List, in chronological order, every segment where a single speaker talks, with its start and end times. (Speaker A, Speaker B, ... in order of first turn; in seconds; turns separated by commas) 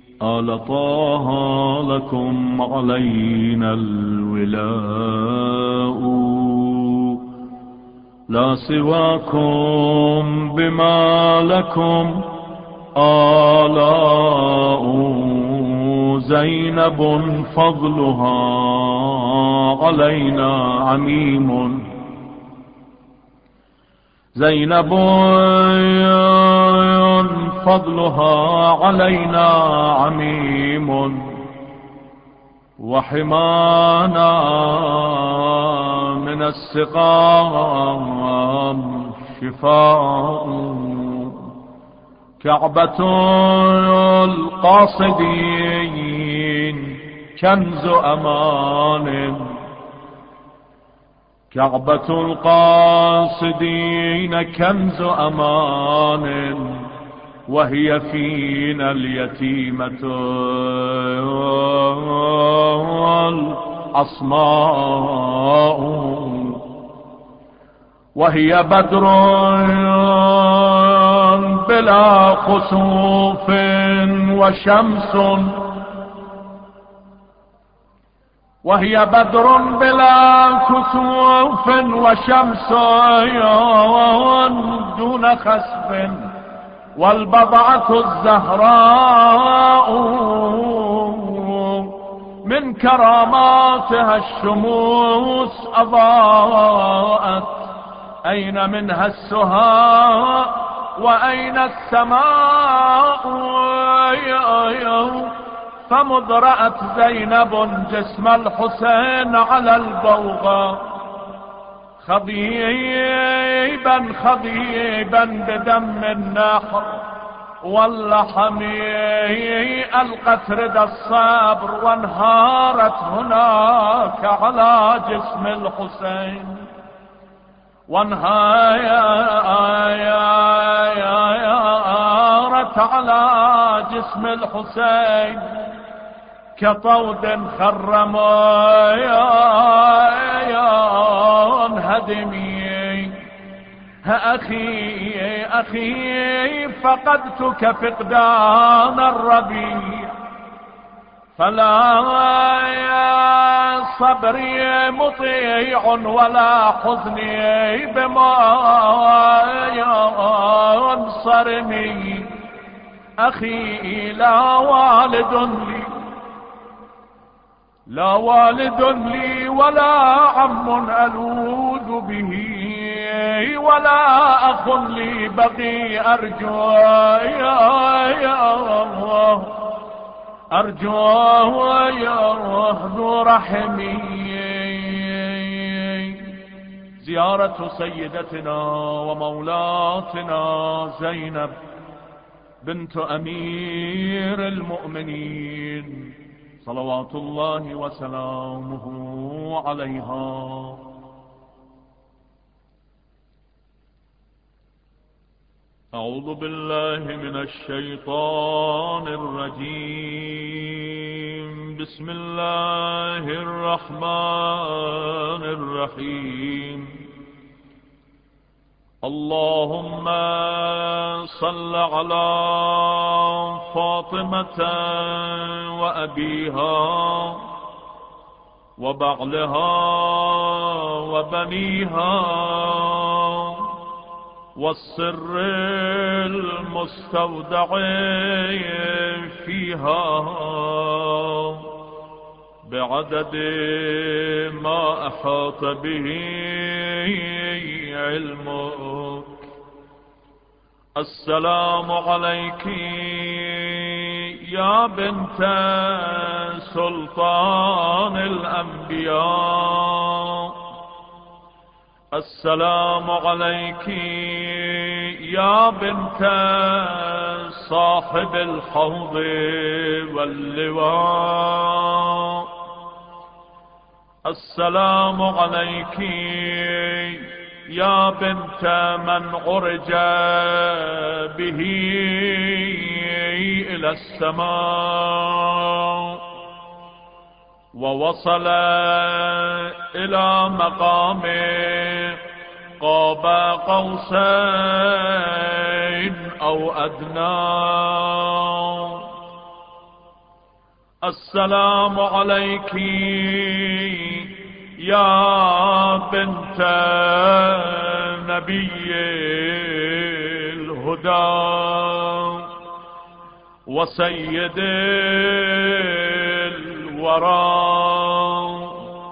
Speaker A: 0.2-7.2, Speaker A: 8.3-12.4, Speaker A: 12.9-21.9, Speaker A: 24.4-31.4, Speaker A: 32.8-41.5, Speaker A: 42.4-49.6, Speaker A: 51.5-57.0, Speaker A: 57.5-66.7, Speaker A: 68.2-75.9, Speaker A: 78.6-86.3, Speaker A: 87.0-111.3, Speaker A: 112.0-126.7, Speaker A: 127.9-135.8, Speaker A: 136.6-143.2, Speaker A: 144.0-150.2, Speaker A: 151.4-162.3, Speaker A: 163.2-166.0, Speaker A: 167.9-179.8, Speaker A: 180.5-186.4, Speaker A: 187.0-191.5, Speaker A: 192.6-200.9, Speaker A: 205.9-217.0, Speaker A: 219.0-227.5, Speaker A: 228.8-233.8, Speaker A: 234.6-241.7, Speaker A: 242.6-249.5, Speaker A: 251.0-260.6, Speaker A: 262.1-272.5, Speaker A: 274.3-286.2, Speaker A: 287.7-292.2, Speaker A: 292.8-299.1, Speaker A: 301.0-312.5, Speaker A: 313.7-318.9